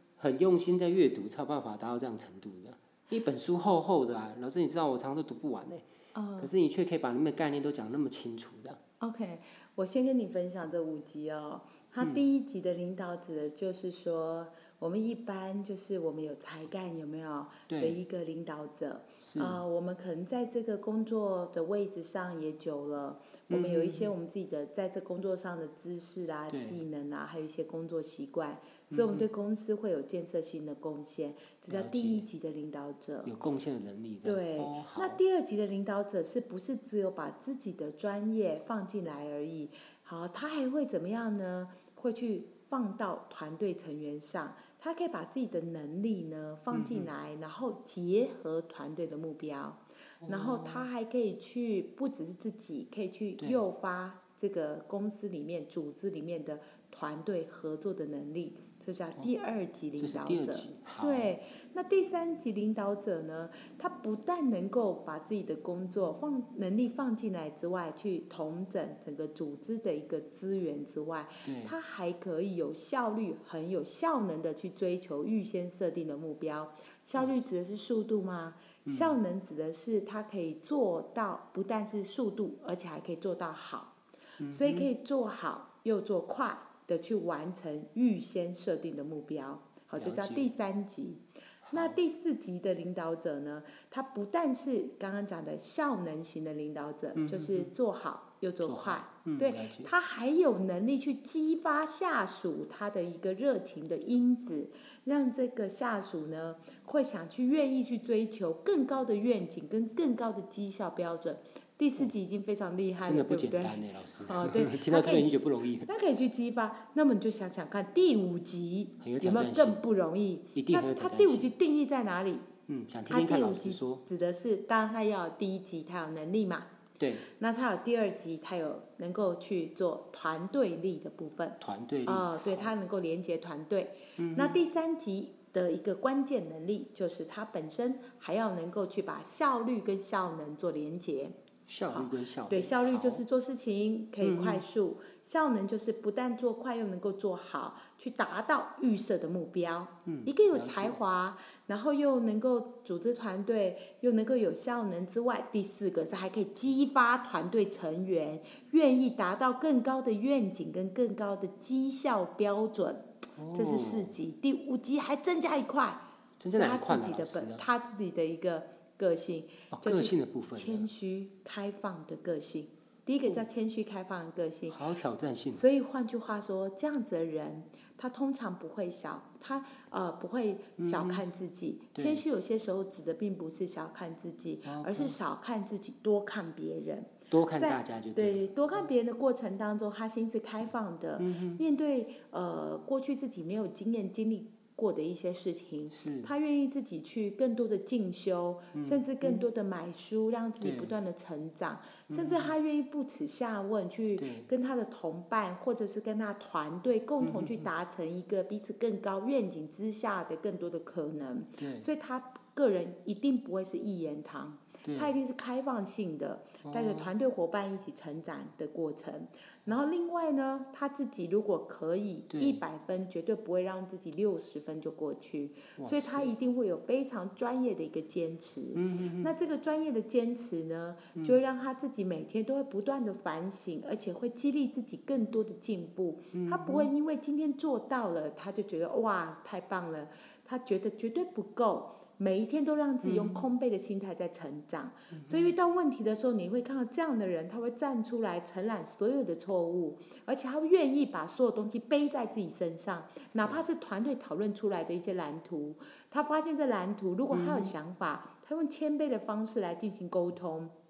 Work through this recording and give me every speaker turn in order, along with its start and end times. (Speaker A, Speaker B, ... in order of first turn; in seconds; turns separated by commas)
Speaker A: 0.2-5.8, Speaker B: 6.1-6.5, Speaker A: 6.4-8.8, Speaker B: 9.0-33.3, Speaker A: 17.7-18.0, Speaker A: 19.2-19.6, Speaker A: 23.5-24.1, Speaker A: 26.5-26.8, Speaker A: 28.9-29.3, Speaker A: 31.7-32.3, Speaker A: 33.2-35.2, Speaker B: 34.2-83.9, Speaker A: 46.7-47.1, Speaker A: 50.2-50.9, Speaker A: 60.0-61.3, Speaker A: 71.4-71.8, Speaker A: 78.9-79.2, Speaker A: 84.4-84.9, Speaker B: 84.5-115.3, Speaker A: 90.0-90.5, Speaker A: 91.6-92.0, Speaker A: 97.2-97.7, Speaker A: 98.6-99.9, Speaker A: 113.0-115.9, Speaker B: 115.8-122.5, Speaker A: 119.0-119.8, Speaker A: 120.5-121.5, Speaker A: 122.7-124.0, Speaker B: 123.1-126.7, Speaker A: 127.0-127.3, Speaker B: 127.3-141.4, Speaker A: 131.6-132.7, Speaker A: 134.2-134.6, Speaker A: 141.7-143.2, Speaker B: 141.9-174.8, Speaker A: 144.2-144.6, Speaker A: 150.1-151.0, Speaker A: 163.4-164.1, Speaker A: 166.4-167.6, Speaker A: 169.7-170.9, Speaker A: 174.7-175.6, Speaker B: 175.5-260.7, Speaker A: 180.8-181.2, Speaker A: 181.9-182.2, Speaker A: 184.7-185.2, Speaker A: 187.3-188.4, Speaker A: 191.2-191.6, Speaker A: 195.9-196.3, Speaker A: 198.8-199.4, Speaker A: 200.6-200.9, Speaker A: 202.1-202.5, Speaker A: 204.2-204.5, Speaker A: 207.2-207.7, Speaker A: 211.6-211.9, Speaker A: 214.8-215.2, Speaker A: 216.6-217.1, Speaker A: 222.3-222.6, Speaker A: 225.8-226.3, Speaker A: 228.8-229.3, Speaker A: 236.3-236.9, Speaker A: 243.0-243.4, Speaker A: 245.1-245.5, Speaker A: 257.3-257.7